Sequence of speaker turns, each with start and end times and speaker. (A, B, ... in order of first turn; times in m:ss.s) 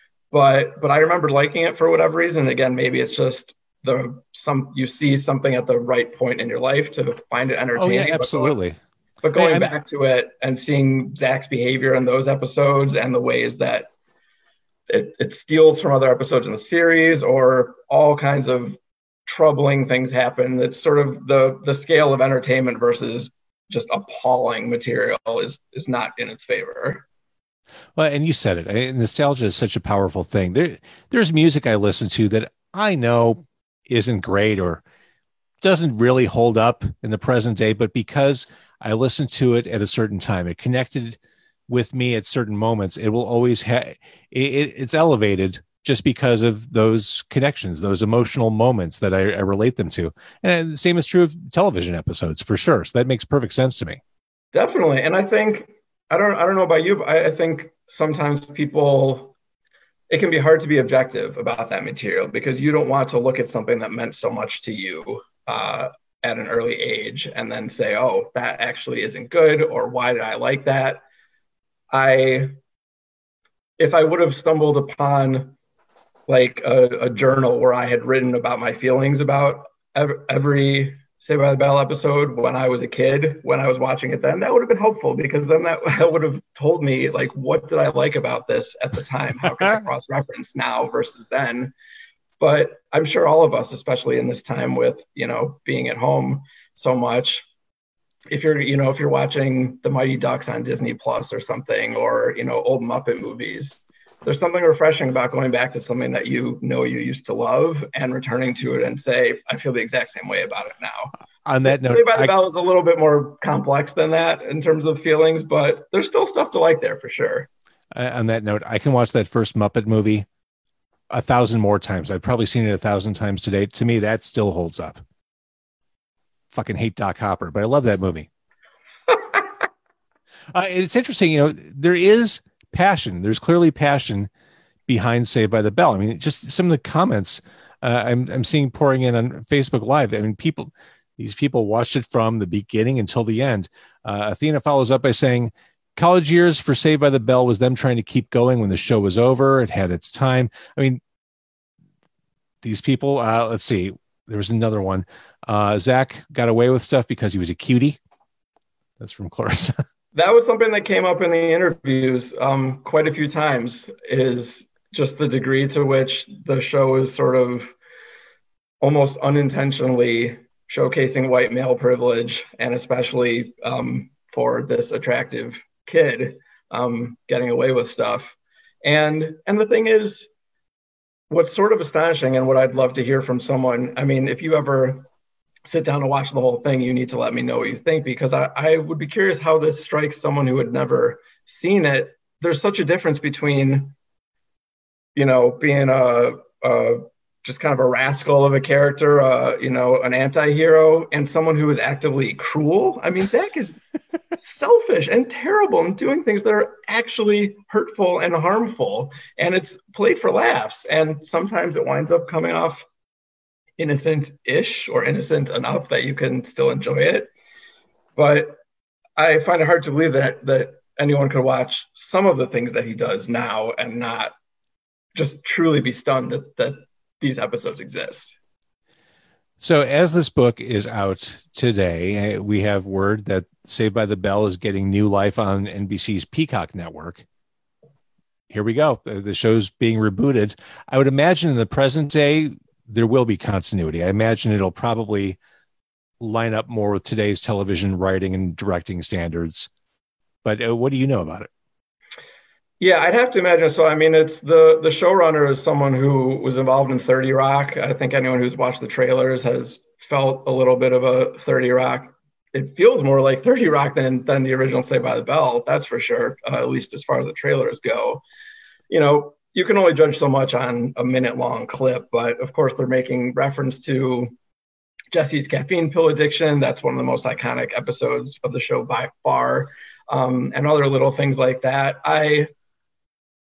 0:00.3-0:08.6 A
0:07.8-0:08.8 B
0:09.2-0:13.9 A
0:09.3-0:09.7 B
0:14.9-0:27.0 A
0:28.0-0:34.8 B
0:35.6-0:54.0 B
0:54.5-0:59.3 A
1:00.1-1:11.0 A
1:11.9-1:12.5 A
1:13.8-1:15.6 A
1:16.3-1:31.7 A
1:32.4-1:37.5 A
1:38.3-1:51.1 A
1:51.4-1:52.3 B
1:51.6-1:57.5 A
1:57.9-2:00.3 B
2:01.1-2:05.0 B
2:06.5-2:08.3 B
2:10.5-2:14.3 B
2:14.9-2:31.0 B
2:32.6-2:38.0 B
2:39.0-2:39.8 B
2:40.2-2:47.7 A
2:48.8-3:00.3 A
3:01.3-3:05.1 A
3:05.7-3:14.0 A
3:15.2-3:23.8 A
3:24.4-3:32.8 A
3:33.8-3:37.3 A
3:38.2-3:38.6 A
3:39.2-3:44.3 A
3:45.2-3:48.4 A
3:49.6-3:57.2 B
3:58.5-4:05.4 B
4:06.2-4:09.7 B
4:10.4-4:11.5 B
4:12.8-4:28.2 A
4:28.9-4:34.3 A
4:35.1-4:42.5 A